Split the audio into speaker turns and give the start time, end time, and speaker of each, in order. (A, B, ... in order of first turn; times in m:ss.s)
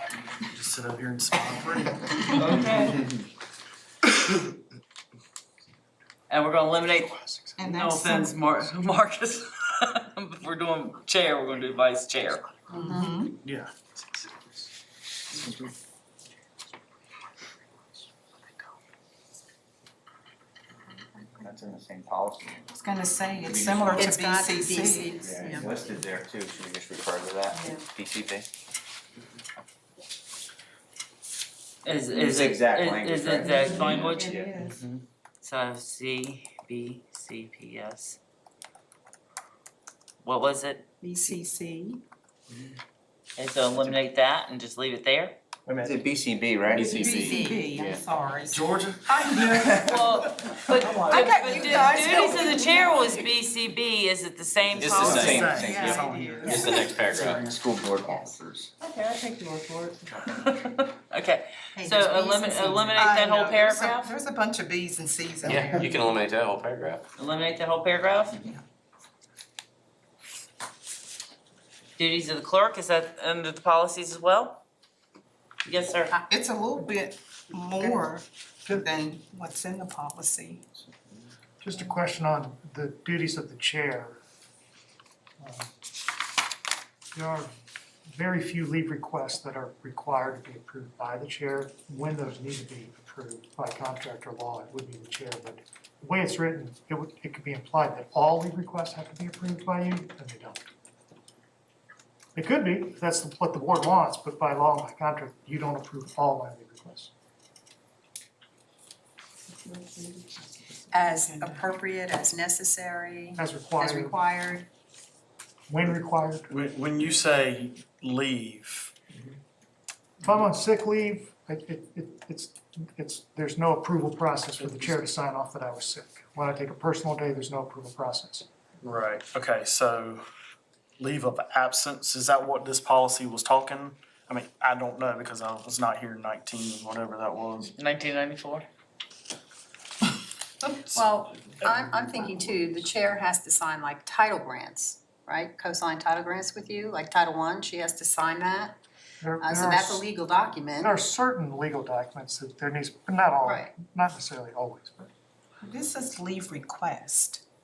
0:00.5-0:02.5 A
0:02.3-0:03.0 B
0:06.3-0:12.5 B
0:07.6-0:08.4 C
0:12.7-0:13.2 D
0:12.8-0:13.4 C
0:13.4-0:14.7 A
0:15.3-0:15.7 A
0:21.4-0:22.6 E
0:22.7-0:25.3 C
0:23.4-0:24.1 E
0:23.9-0:25.8 D
0:25.2-0:28.5 E
0:27.6-0:27.8 C
0:31.8-0:38.2 B
0:32.1-0:34.5 E
0:33.4-0:34.8 C
0:40.2-0:40.9 B
0:41.0-0:42.0 C
0:43.4-0:45.4 B
0:45.7-0:47.6 E
0:46.7-0:50.1 C
0:48.5-0:49.7 A
0:49.8-0:55.6 B
0:50.8-0:51.3 A
0:51.0-0:53.3 C
0:54.8-0:56.2 E
0:54.8-0:55.4 F
0:54.9-0:56.6 A
0:55.3-0:56.8 C
0:56.4-0:57.4 F
0:57.0-0:58.7 E
0:59.1-1:00.0 C
1:00.3-1:04.1 B
1:01.8-1:06.1 C
1:05.4-1:07.0 F
1:07.2-1:08.5 B
1:12.0-1:14.6 B
1:15.6-1:16.2 B
1:16.3-1:20.6 C
1:21.6-1:24.2 G
1:25.4-1:25.7 G
1:27.2-1:27.5 G
1:28.1-1:40.7 G
1:42.4-1:47.1 G
1:50.9-1:54.7 D
1:51.1-1:51.7 C
1:53.4-1:54.2 G
1:55.7-1:56.5 G
1:56.5-1:59.0 A
2:00.2-2:08.5 G
2:04.6-2:05.0 A
2:08.8-2:10.2 A
2:11.0-2:17.7 A
2:17.8-2:18.7 B
2:20.8-2:28.8 D
2:29.2-2:30.1 G
2:29.4-2:30.9 D
2:30.8-2:35.1 G
2:33.4-2:33.7 D
2:35.6-2:37.4 C